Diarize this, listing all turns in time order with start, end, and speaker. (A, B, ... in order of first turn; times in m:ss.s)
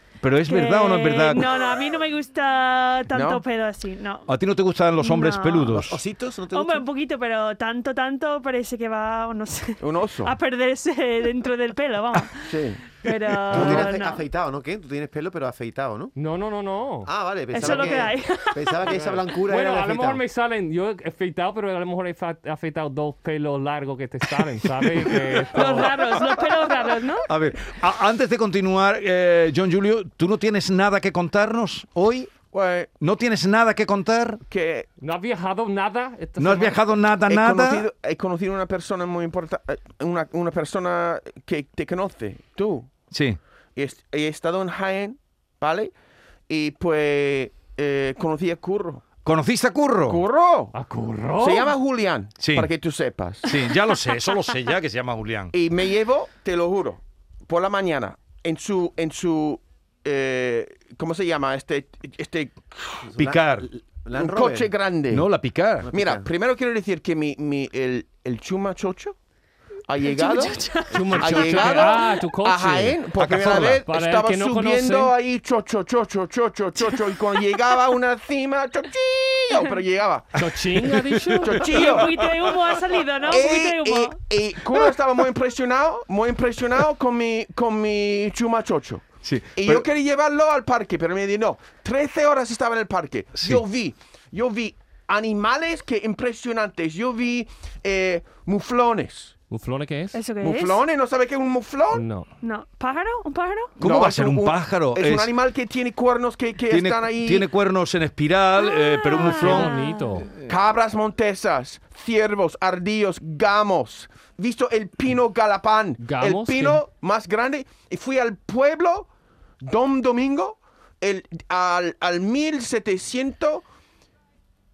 0:00.2-0:01.5 A
0:00.4-0:04.3 B
0:03.1-0:03.4 C
0:04.3-0:06.0 A
0:05.0-0:05.7 B
0:05.6-0:06.8 D
0:06.5-0:14.2 B
0:09.8-0:10.4 C
0:12.5-0:12.8 C
0:13.5-0:16.1 D
0:13.5-0:13.9 E
0:16.2-0:17.1 E
0:17.1-0:20.2 D
0:17.5-0:18.8 B
0:17.7-0:18.1 E
0:18.8-0:26.0 E
0:25.6-0:27.3 B
0:25.6-0:26.5 A
0:27.3-0:32.4 A
0:32.5-0:32.9 C
0:33.0-0:34.4 A
0:34.5-0:34.9 C
0:35.0-0:36.8 E
0:36.4-0:37.9 A
0:37.3-0:42.9 C
0:43.1-0:43.4 A
0:43.8-0:45.9 C
0:46.5-0:49.1 C
0:49.2-0:50.2 A
0:50.1-0:50.7 C
0:50.7-0:51.8 E
0:51.4-0:53.5 C
0:52.4-0:52.7 A
0:53.4-0:55.5 A
0:55.5-1:03.1 C
1:03.0-1:04.7 D
1:03.2-1:03.7 A
1:04.1-1:05.3 C
1:05.1-1:05.9 A
1:05.8-1:06.3 D
1:05.9-1:09.2 C
1:09.9-1:10.6 C
1:10.0-1:12.0 B
1:10.9-1:15.1 E
1:11.2-1:20.4 C
1:19.5-1:19.8 B
1:20.3-1:21.6 E
1:20.9-1:21.3 A
1:21.4-1:22.2 C
1:21.5-1:24.9 B
1:22.2-1:22.6 A
1:23.2-1:39.4 C
1:29.2-1:29.9 A
1:33.4-1:33.6 A
1:39.5-1:40.2 E
1:40.1-1:40.8 B
1:40.4-1:42.0 C
1:41.9-1:42.3 E
1:42.4-1:43.8 B
1:43.8-1:45.3 A
1:43.8-1:47.5 C
1:46.7-1:49.7 A
1:48.6-1:50.2 B
1:49.2-1:50.3 E
1:50.5-1:59.1 C
1:56.0-1:56.8 E
1:59.6-2:03.7 C